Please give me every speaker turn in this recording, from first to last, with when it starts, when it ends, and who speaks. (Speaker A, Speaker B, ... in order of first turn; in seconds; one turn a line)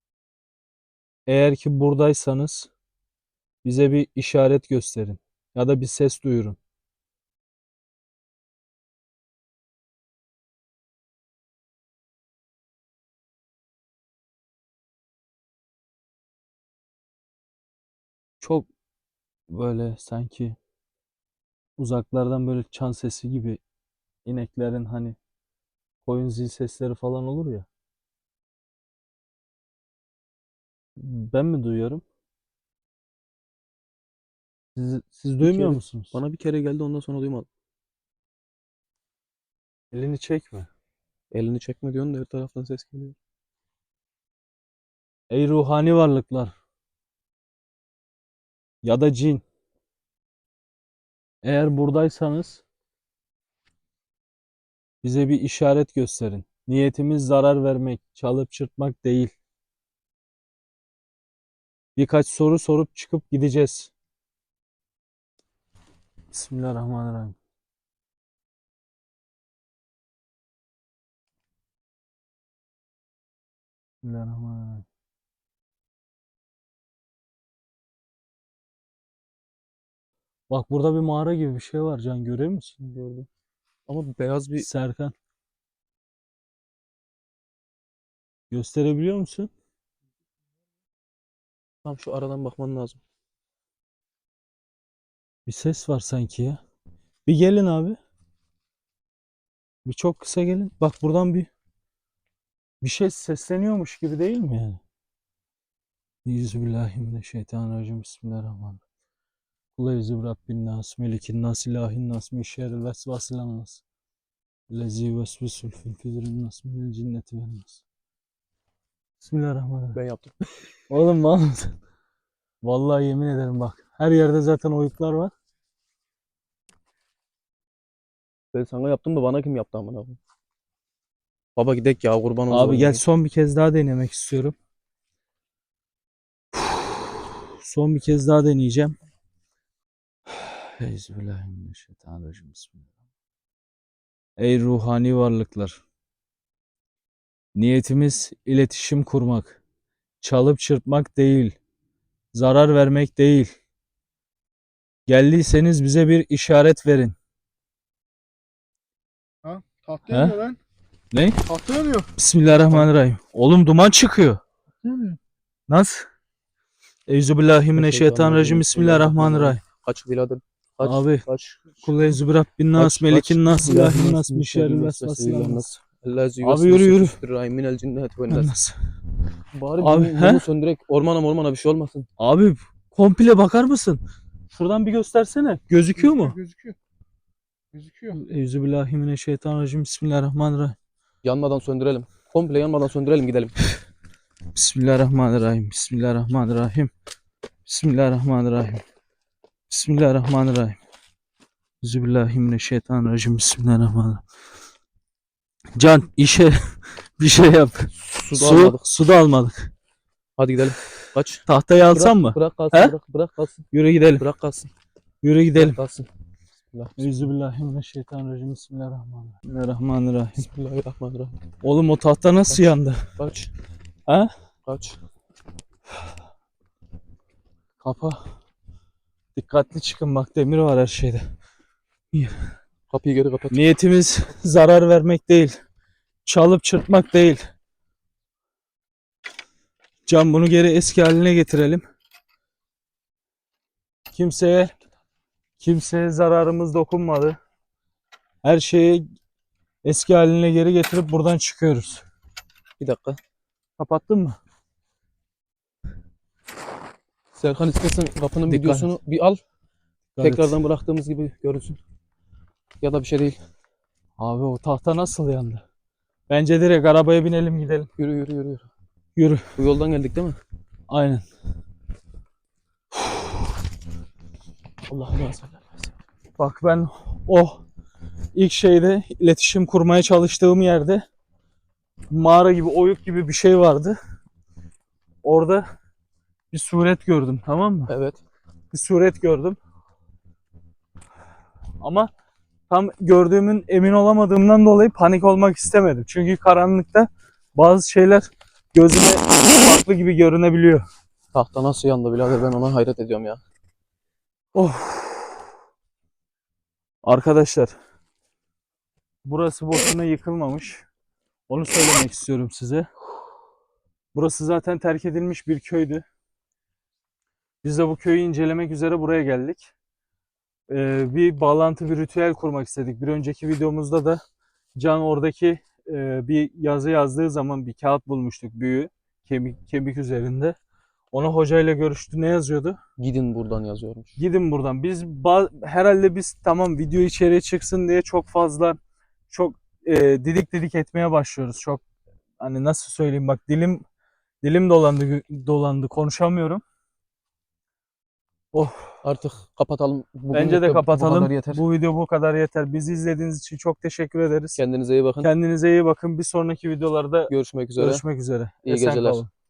Speaker A: 1.3-2.7
Speaker A: 3.6-6.6
Speaker A: 18.4-18.7
Speaker A: 19.5-20.6
Speaker A: 21.8-23.6
Speaker A: 24.2-25.2
Speaker A: 26.0-27.7
Speaker A: 31.0-32.0
Speaker A: 34.8-36.1
Speaker B: 35.4-37.5
Speaker A: 39.9-40.7
Speaker B: 41.3-43.1
Speaker A: 45.3-46.5
Speaker A: 48.8-49.4
Speaker A: 51.4-52.6
Speaker A: 55.0-59.3
Speaker A: 62.0-63.9
Speaker A: 66.3-67.4
Speaker A: 74.0-74.8
Speaker A: 80.5-82.8
Speaker B: 82.8-83.3
Speaker B: 83.9-84.7
Speaker A: 84.6-85.1
Speaker A: 88.5-89.5
Speaker B: 91.8-93.0
Speaker A: 95.5-96.6
Speaker A: 97.2-98.0
Speaker A: 99.8-101.5
Speaker A: 102.8-104.8
Speaker A: 106.2-108.8
Speaker A: 109.8-113.8
Speaker A: 114.7-117.8
Speaker A: 119.2-120.0
Speaker B: 120.0-120.4
Speaker A: 120.9-121.7
Speaker A: 122.6-125.3
Speaker B: 128.5-130.2
Speaker B: 131.6-133.0
Speaker A: 132.5-134.6
Speaker A: 136.6-139.0
Speaker A: 140.3-142.8
Speaker A: 144.4-145.8
Speaker A: 147.5-149.6
Speaker A: 150.2-151.6
Speaker A: 152.3-153.5
Speaker A: 155.1-157.1
Speaker C: 159.4-160.6
Speaker A: 160.1-160.5
Speaker A: 161.1-161.5
Speaker C: 161.5-162.1
Speaker A: 162.1-164.4
Speaker A: 165.7-166.1
Speaker A: 167.1-169.6
Speaker B: 167.8-171.8
Speaker A: 170.8-171.2
Speaker A: 171.8-175.7
Speaker B: 172.8-178.5
Speaker A: 176.4-177.2
Speaker A: 178.3-178.8
Speaker B: 179.5-182.1
Speaker A: 179.8-180.4
Speaker A: 182.2-186.4
Speaker C: 186.5-186.7
Speaker A: 188.0-190.8
Speaker B: 191.2-193.6
Speaker A: 194.5-196.9
Speaker A: 197.7-198.8
Speaker A: 199.7-200.8
Speaker A: 201.8-204.2
Speaker A: 205.8-209.7
Speaker B: 207.9-208.9
Speaker B: 210.4-214.7
Speaker A: 211.5-212.9
Speaker A: 213.7-214.3
Speaker A: 215.2-215.8
Speaker B: 215.6-216.1
Speaker B: 216.7-217.3
Speaker A: 217.0-220.5
Speaker B: 220.4-221.4
Speaker A: 221.6-223.1
Speaker B: 222.5-223.5
Speaker B: 224.7-225.0
Speaker A: 227.8-228.3
Speaker A: 229.3-231.2
Speaker A: 232.1-232.5
Speaker B: 232.9-233.6
Speaker A: 233.5-235.6
Speaker A: 236.2-237.4
Speaker A: 240.1-241.8
Speaker A: 244.1-244.7
Speaker A: 245.6-247.4
Speaker A: 248.4-249.0
Speaker A: 249.8-252.0
Speaker B: 252.8-253.2
Speaker A: 253.8-254.4
Speaker B: 257.4-259.4
Speaker A: 258.5-258.9
Speaker A: 260.1-260.6
Speaker B: 260.2-261.8
Speaker B: 262.8-263.4
Speaker A: 264.2-265.6
Speaker A: 266.3-267.9
Speaker B: 268.0-268.7
Speaker A: 269.1-269.5
Speaker B: 269.6-270.4
Speaker A: 270.9-271.2
Speaker B: 274.9-275.9
Speaker A: 276.4-277.6
Speaker A: 278.4-281.0
Speaker A: 282.1-284.0
Speaker A: 285.2-285.6
Speaker A: 286.5-287.9
Speaker B: 287.9-288.2
Speaker A: 288.7-289.6
Speaker A: 291.8-292.1
Speaker A: 292.7-300.8
Speaker B: 301.3-303.4
Speaker A: 304.5-305.4
Speaker A: 307.0-307.8
Speaker A: 309.2-310.9
Speaker A: 311.5-312.9
Speaker A: 314.1-316.0
Speaker A: 317.6-319.7
Speaker A: 320.7-324.2
Speaker A: 324.8-330.6
Speaker A: 331.1-332.8
Speaker B: 333.0-334.2
Speaker A: 334.2-338.8
Speaker A: 339.3-341.8
Speaker A: 342.4-343.8
Speaker A: 344.4-346.6
Speaker A: 348.5-349.0
Speaker B: 349.0-351.6
Speaker A: 350.3-354.6
Speaker B: 354.6-355.3
Speaker A: 355.2-359.3
Speaker B: 357.3-358.0
Speaker B: 358.6-359.2